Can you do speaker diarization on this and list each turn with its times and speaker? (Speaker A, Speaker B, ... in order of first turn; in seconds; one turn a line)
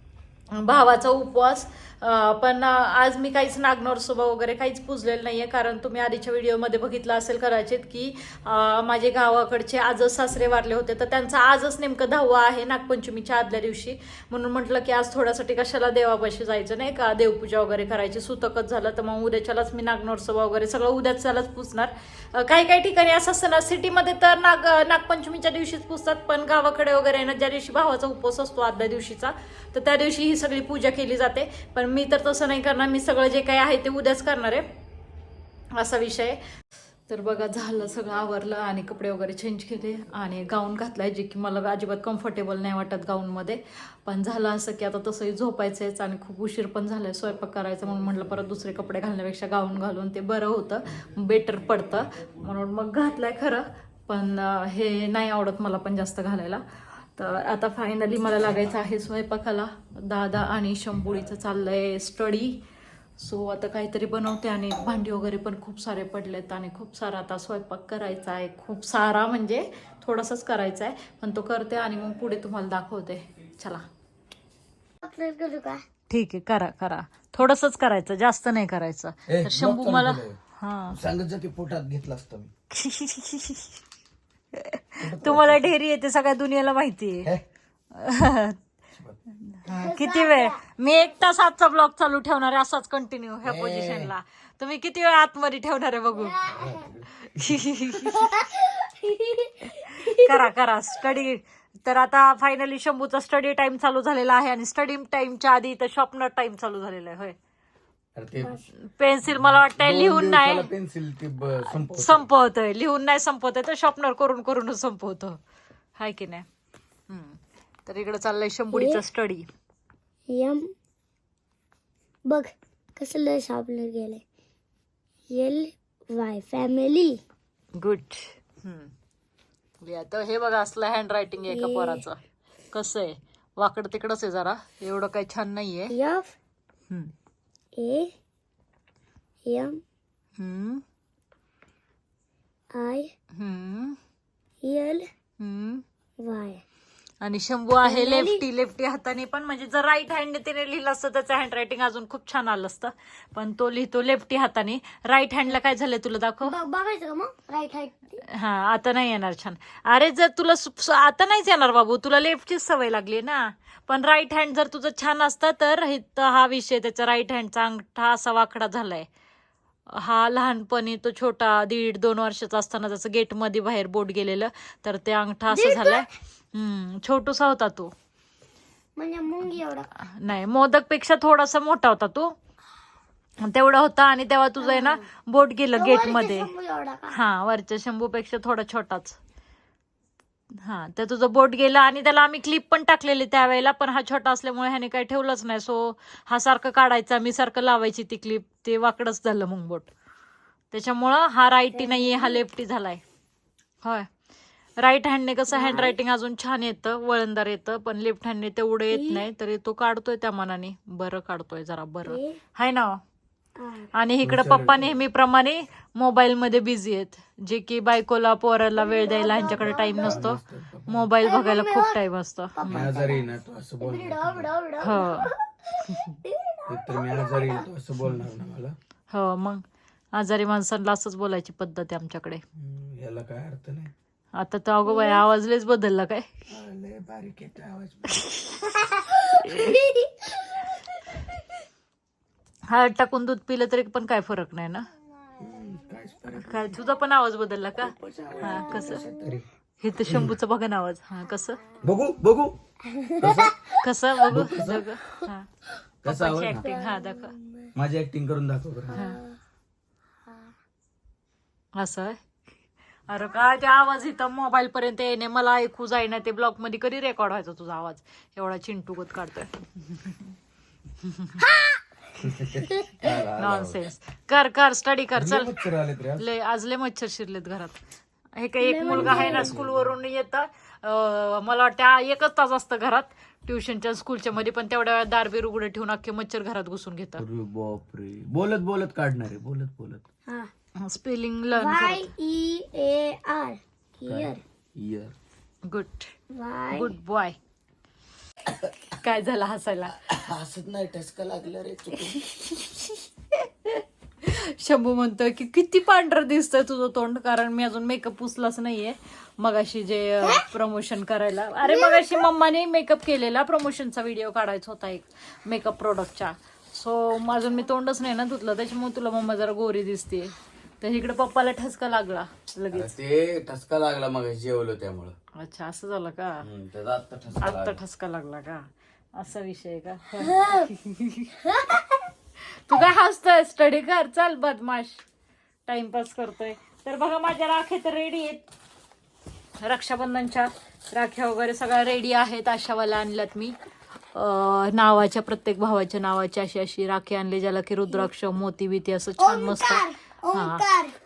Speaker A: 0.6-34.6
Speaker A: 35.8-36.4
Speaker A: 37.1-62.6
Speaker A: 63.2-73.8
Speaker B: 75.0-75.8
Speaker A: 76.1-81.0
Speaker C: 79.3-80.4
Speaker C: 80.9-82.5
Speaker A: 82.7-83.8
Speaker A: 84.5-87.3
Speaker C: 85.0-85.7
Speaker A: 87.9-88.6
Speaker C: 88.9-89.2
Speaker A: 89.5-96.4
Speaker B: 89.6-90.7
Speaker C: 93.4-94.1
Speaker B: 96.1-96.9
Speaker C: 96.5-98.1
Speaker A: 97.2-98.2
Speaker B: 98.1-100.5
Speaker A: 100.0-107.3
Speaker C: 108.2-108.6
Speaker A: 108.8-110.7
Speaker C: 109.3-112.2
Speaker A: 111.6-115.4
Speaker A: 116.0-116.5
Speaker A: 117.1-119.5
Speaker B: 118.7-119.0
Speaker B: 120.3-120.7
Speaker B: 122.2-124.2
Speaker B: 125.3-127.2
Speaker A: 127.8-128.9
Speaker A: 129.8-132.2
Speaker B: 131.4-132.0
Speaker A: 132.7-135.9
Speaker B: 135.9-136.3
Speaker B: 137.8-138.1
Speaker B: 139.4-139.8
Speaker A: 140.4-140.8
Speaker B: 142.7-143.1
Speaker A: 143.3-144.0
Speaker B: 144.6-145.1
Speaker A: 145.4-145.8
Speaker B: 146.2-146.6
Speaker A: 147.2-156.5
Speaker B: 147.8-148.4
Speaker B: 156.4-158.2
Speaker A: 158.3-169.1
Speaker A: 169.9-177.9
Speaker B: 175.5-176.0
Speaker B: 179.0-179.9
Speaker A: 180.0-182.3
Speaker A: 183.4-186.5
Speaker B: 184.6-185.1
Speaker B: 185.7-187.2
Speaker A: 187.1-189.2
Speaker A: 190.5-199.9
Speaker A: 200.7-203.0
Speaker B: 201.7-202.4
Speaker A: 203.8-204.1
Speaker A: 204.8-213.0
Speaker B: 205.5-206.0
Speaker B: 208.9-209.2
Speaker B: 212.1-212.4
Speaker B: 213.6-213.9
Speaker A: 213.9-222.9
Speaker C: 214.2-215.0
Speaker B: 218.7-220.3
Speaker C: 219.5-221.1
Speaker B: 221.2-222.0
Speaker B: 222.5-227.7
Speaker C: 222.7-224.5
Speaker A: 224.8-225.3
Speaker A: 225.8-226.2
Speaker C: 226.7-228.8
Speaker A: 229.1-229.6
Speaker A: 230.1-232.4
Speaker C: 232.6-233.9
Speaker A: 234.3-236.3
Speaker B: 234.8-235.2
Speaker C: 236.5-238.2
Speaker B: 238.6-240.8
Speaker A: 242.7-244.9
Speaker C: 245.4-246.8
Speaker A: 246.3-249.1
Speaker C: 247.8-249.4
Speaker B: 248.7-249.2
Speaker A: 249.8-251.6
Speaker C: 250.0-250.3
Speaker B: 251.2-251.8
Speaker C: 251.8-252.6
Speaker B: 252.9-253.8
Speaker C: 253.2-254.9
Speaker A: 253.8-255.5
Speaker B: 255.0-255.3
Speaker C: 256.0-256.6
Speaker A: 256.0-257.3
Speaker B: 256.6-257.7
Speaker C: 257.7-259.0
Speaker B: 258.9-259.4
Speaker A: 258.9-259.2
Speaker A: 261.8-262.2
Speaker A: 263.1-270.3
Speaker A: 271.0-271.3
Speaker B: 271.4-271.8
Speaker C: 272.2-273.8
Speaker B: 272.6-272.9
Speaker A: 273.0-275.5
Speaker C: 275.1-276.2
Speaker A: 276.2-277.8
Speaker A: 278.4-287.2
Speaker B: 278.6-279.5
Speaker C: 278.9-279.9
Speaker C: 287.2-290.0
Speaker A: 290.8-292.1
Speaker B: 291.5-294.4
Speaker C: 294.1-295.1
Speaker A: 295.6-296.1
Speaker B: 296.3-296.9
Speaker A: 296.7-297.4
Speaker A: 298.9-300.0
Speaker C: 299.9-302.2
Speaker A: 301.9-322.9
Speaker B: 311.6-312.3
Speaker C: 322.7-325.1
Speaker A: 325.4-326.5
Speaker C: 326.4-327.8
Speaker A: 327.4-331.3
Speaker B: 330.2-330.7
Speaker B: 331.4-332.1
Speaker A: 332.7-335.0
Speaker A: 335.7-338.4
Speaker A: 339.6-343.6
Speaker A: 344.1-350.6
Speaker B: 349.2-350.9